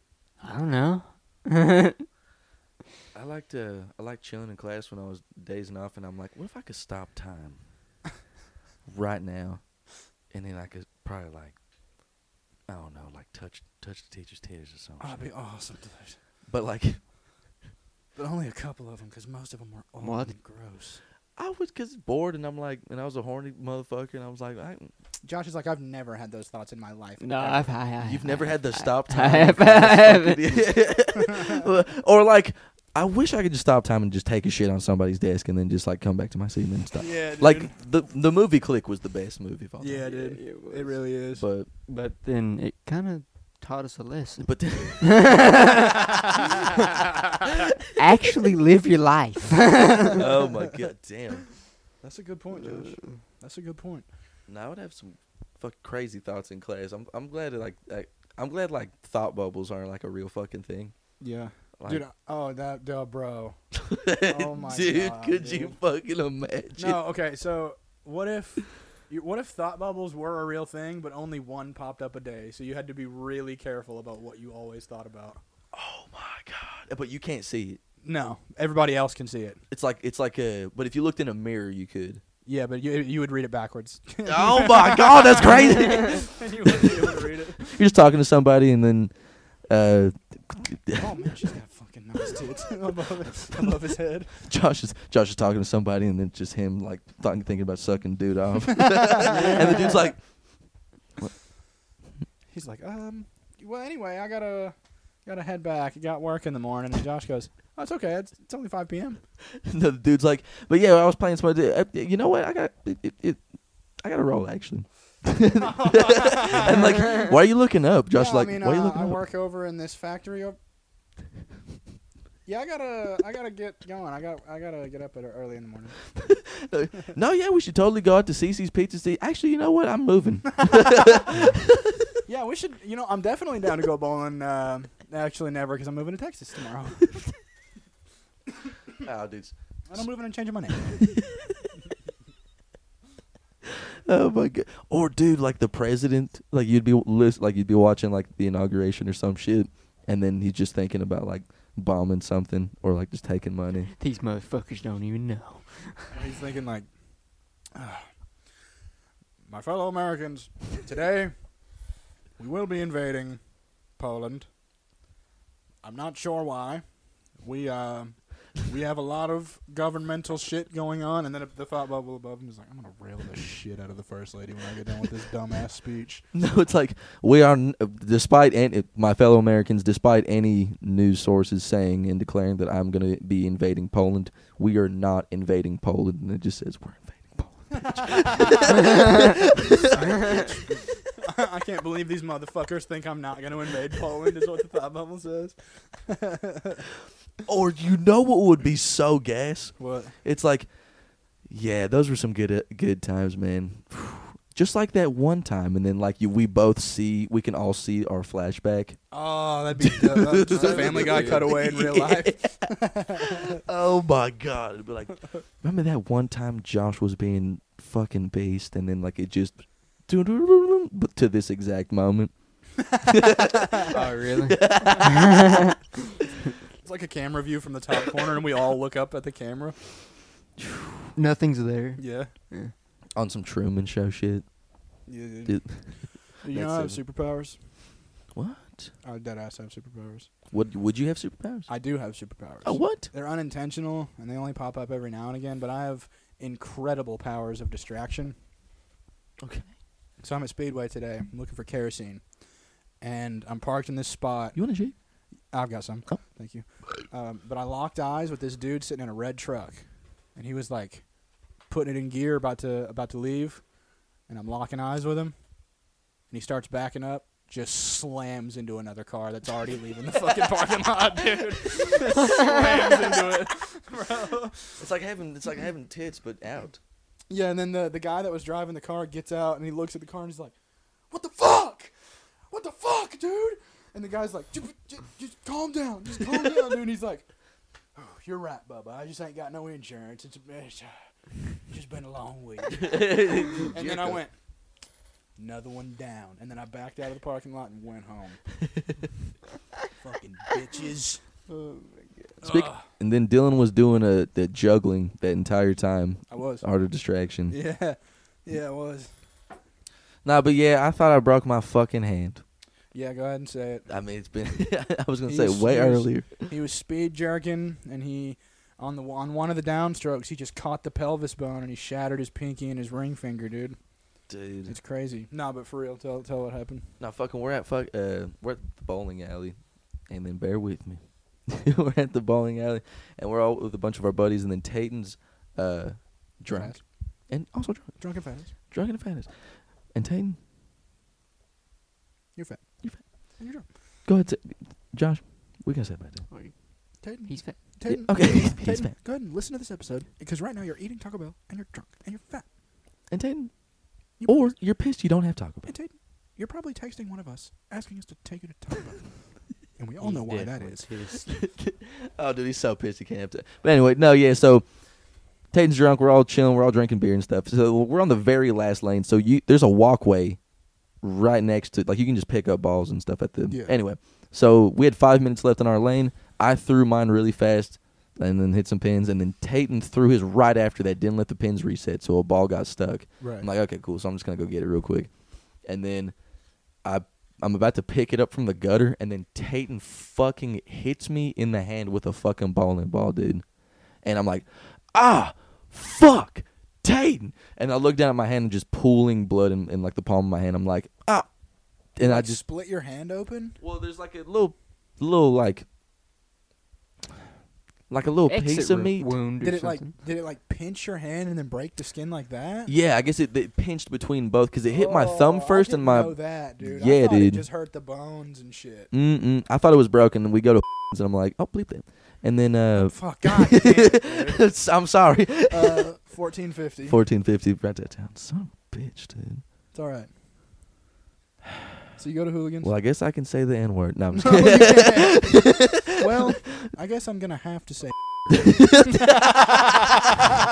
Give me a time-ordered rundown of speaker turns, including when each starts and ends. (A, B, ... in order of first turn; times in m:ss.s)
0:00.4-0:02.0 A
0:03.1-0:07.6 B
0:08.8-0:09.6 B
0:10.3-0:11.6 B
0:12.7-0:15.3 B
0:15.0-0:16.2 C
0:16.5-0:17.0 B
0:18.1-0:21.0 C
0:20.0-0:20.3 A
0:21.4-0:24.9 B
0:25.2-0:27.7 C
0:27.2-0:30.4 A
0:28.0-0:40.0 B
0:31.2-0:31.6 C
0:37.0-0:37.7 C
0:39.8-0:41.4 C
0:40.0-0:41.1 A
0:41.4-0:41.7 B
0:41.8-0:46.8 A
0:44.4-0:45.3 B
0:47.9-0:50.2 A
0:50.2-0:51.5 B
0:52.0-0:54.0 C
0:52.6-0:53.2 A
0:54.5-1:00.9 B
1:01.2-1:03.6 C
1:01.8-1:02.0 B
1:03.7-1:07.0 B
1:04.2-1:05.8 C
1:06.8-1:15.4 C
1:15.7-1:17.8 B
1:18.0-1:19.6 C
1:19.7-1:22.2 B
1:22.4-1:27.8 C
1:24.2-1:29.1 B
1:29.7-1:31.1 B
1:31.0-1:34.4 C
1:33.5-1:33.8 B
1:34.4-1:40.2 B
1:39.0-1:40.0 C
1:42.5-1:49.2 C
1:49.5-1:53.4 B
1:54.0-1:59.2 B
1:55.8-1:57.3 C
1:58.1-2:00.6 C
2:02.4-2:06.0 C
2:06.2-2:12.0 B
2:10.7-2:11.2 C
2:12.2-2:17.2 C
2:19.0-2:20.0 B
2:19.9-2:21.0 C
2:21.0-2:21.7 B
2:23.7-2:33.9 B
2:34.0-2:36.2 A
2:36.1-2:36.9 C
2:37.7-2:38.1 C
2:39.5-2:41.3 C
2:42.4-2:44.5 C
2:45.8-2:46.8 C
2:47.4-2:56.2 C
2:56.3-3:10.3 B
3:07.7-3:16.8 C
3:17.4-3:20.7 B
3:19.8-3:20.2 C
3:21.4-3:29.0 B
3:29.1-3:33.6 C
3:29.8-3:42.3 B
3:30.5-3:31.4 A
3:42.9-3:43.8 B
3:43.9-3:45.6 A
3:44.4-3:45.6 B
3:46.8-3:49.8 C
3:50.6-3:51.1 B
3:51.1-3:52.7 A
3:52.0-3:52.3 C
3:53.1-3:54.5 B
3:55.0-3:57.6 C
3:55.4-3:57.0 B
3:58.3-3:58.9 B
3:59.0-4:00.3 C
4:00.5-4:01.7 B
4:01.7-4:08.3 C
4:02.6-4:03.1 B
4:09.4-4:09.7 B
4:10.2-4:12.3 C
4:13.0-4:14.6 C
4:14.5-4:14.9 B
4:15.5-4:23.7 C
4:24.2-4:25.4 C
4:26.3-4:34.8 C
4:34.8-4:36.8 B
4:37.3-4:40.5 C
4:41.1-4:41.9 C
4:42.5-4:47.3 C
4:47.9-4:50.9 C
4:51.5-4:54.3 C
4:52.7-4:54.2 B
4:55.4-4:58.4 C
4:59.9-5:01.2 C
5:01.5-5:02.4 A
5:02.4-5:02.8 C
5:02.4-5:07.6 B
5:06.3-5:06.6 C
5:07.5-5:09.1 C
5:10.2-5:12.4 B
5:12.9-5:13.8 C
5:13.9-5:16.5 B
5:15.3-5:23.8 C
5:24.3-5:24.8 B
5:24.6-5:26.9 C
5:27.0-5:40.4 B
5:36.5-5:36.9 C
5:38.0-5:38.5 C
5:42.4-5:43.6 C
5:44.0-5:46.2 B
5:46.3-5:47.6 A
5:47.0-5:52.5 C
5:47.9-5:48.9 B
5:53.1-5:55.7 B
5:54.2-5:54.6 C
5:55.6-6:00.9 C
6:00.0-6:01.3 A
6:01.1-6:04.7 B
6:05.4-6:10.4 B
6:11.0-6:26.2 B
6:13.5-6:13.8 C
6:23.2-6:23.5 C
6:26.8-6:33.4 B
6:34.0-6:42.4 B
6:42.0-6:43.6 C
6:43.6-6:45.6 B
6:47.9-6:49.1 B
6:48.3-6:49.9 A
6:49.4-6:52.7 C
6:52.7-6:57.4 B
6:54.7-6:58.9 C
6:58.9-7:05.9 B
7:02.8-7:04.5 C
7:05.5-7:07.0 C
7:06.9-7:09.4 B
7:09.7-7:10.1 C
7:11.9-7:12.7 C
7:12.6-7:15.9 B
7:14.1-7:18.0 C
7:18.4-7:19.3 B
7:18.8-7:19.6 C